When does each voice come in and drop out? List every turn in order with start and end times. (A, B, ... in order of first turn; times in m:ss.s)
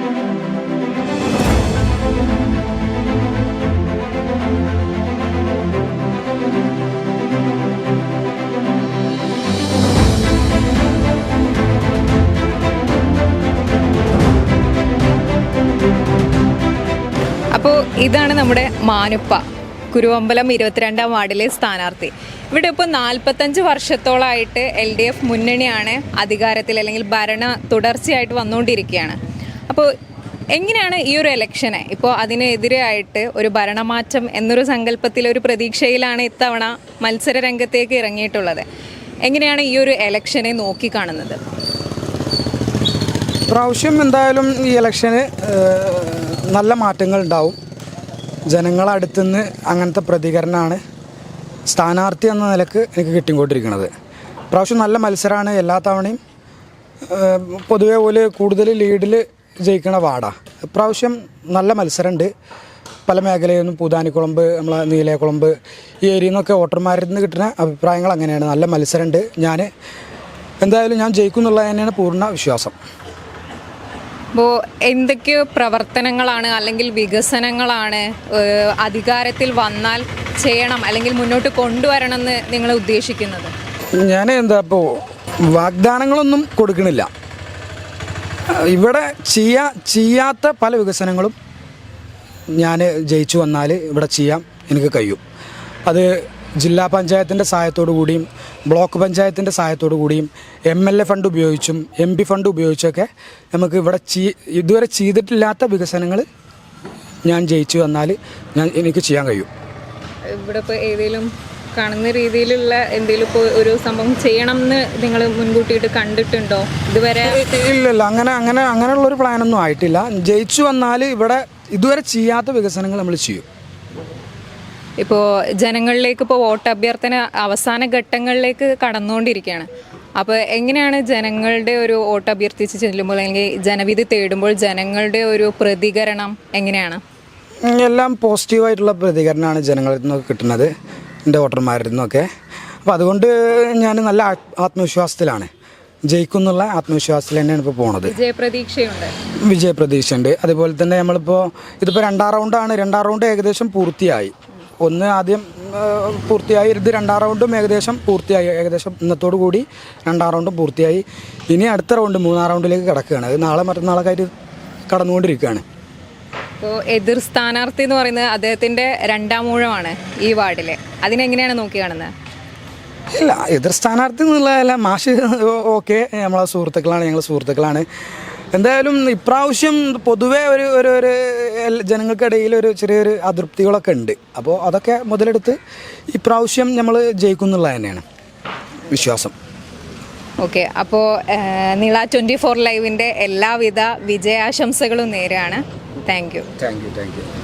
0:17.5-0:29.9 A
0:30.5-0:38.6 A
0:39.2-0:41.4 A
0:43.5-0:47.6 B
0:48.5-0:50.8 B
0:51.7-0:53.9 B
0:54.5-0:56.2 B
0:57.1-1:02.3 B
1:03.1-1:09.7 B
1:10.6-1:12.7 B
1:14.3-1:23.5 A
1:24.0-1:27.1 B
1:28.5-1:31.3 B
1:32.6-1:35.2 B
1:35.9-1:46.2 B
1:47.2-1:49.5 B
1:50.2-1:57.4 A
1:57.3-2:03.4 B
2:05.0-2:17.0 A
2:17.6-2:20.7 B
2:21.2-2:22.3 B
2:22.8-2:25.5 B
2:26.1-2:28.1 B
2:28.1-2:29.1 A
2:29.5-2:44.3 B
2:44.9-2:45.6 B
2:46.6-2:52.1 A
2:53.1-2:57.8 B
2:58.5-3:05.6 B
3:06.1-3:08.0 B
3:08.9-3:09.3 B
3:10.4-3:16.5 A
3:16.6-3:17.3 B